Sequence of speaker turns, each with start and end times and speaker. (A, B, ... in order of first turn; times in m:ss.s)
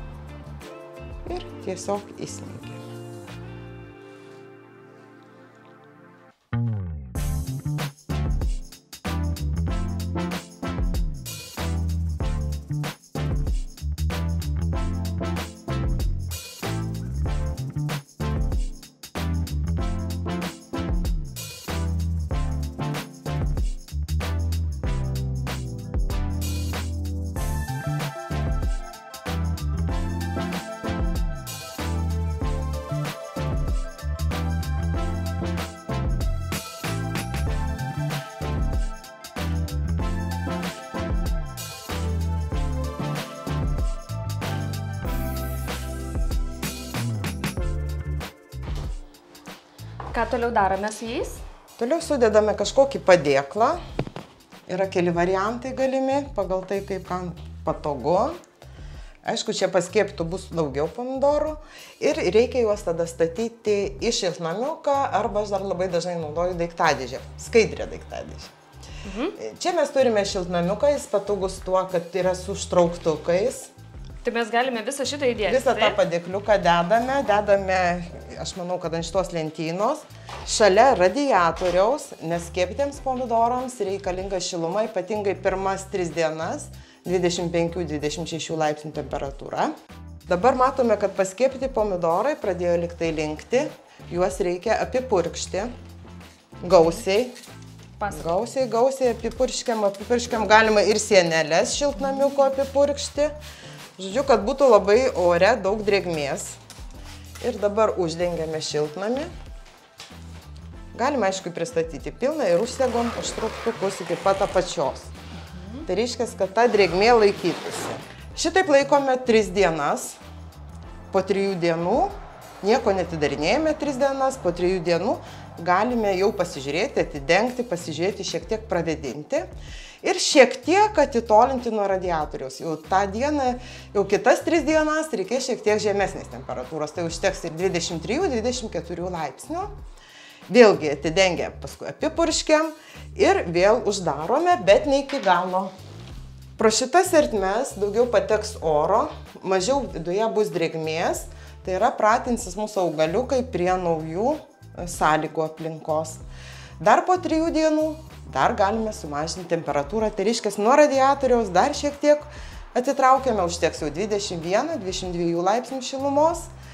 0:01.2-0:02.9 A
0:50.1-0:51.4 B
0:51.8-0:53.8 A
0:54.7-0:58.4 A
0:59.2-1:08.5 A
1:09.0-1:09.4 B
1:09.4-1:13.7 A
1:14.2-1:16.0 B
1:15.4-1:29.7 A
1:30.3-1:35.7 A
1:36.6-1:37.4 A
1:38.0-1:38.4 B
1:38.1-1:43.3 A
1:44.0-1:46.6 A
1:47.4-1:49.3 A
1:50.9-1:55.1 A
1:55.5-1:55.8 B
1:55.9-2:00.2 A
2:01.1-2:09.5 A
2:10.0-2:19.7 A
2:20.5-2:25.7 A
2:26.6-2:36.2 A
2:36.8-2:46.5 A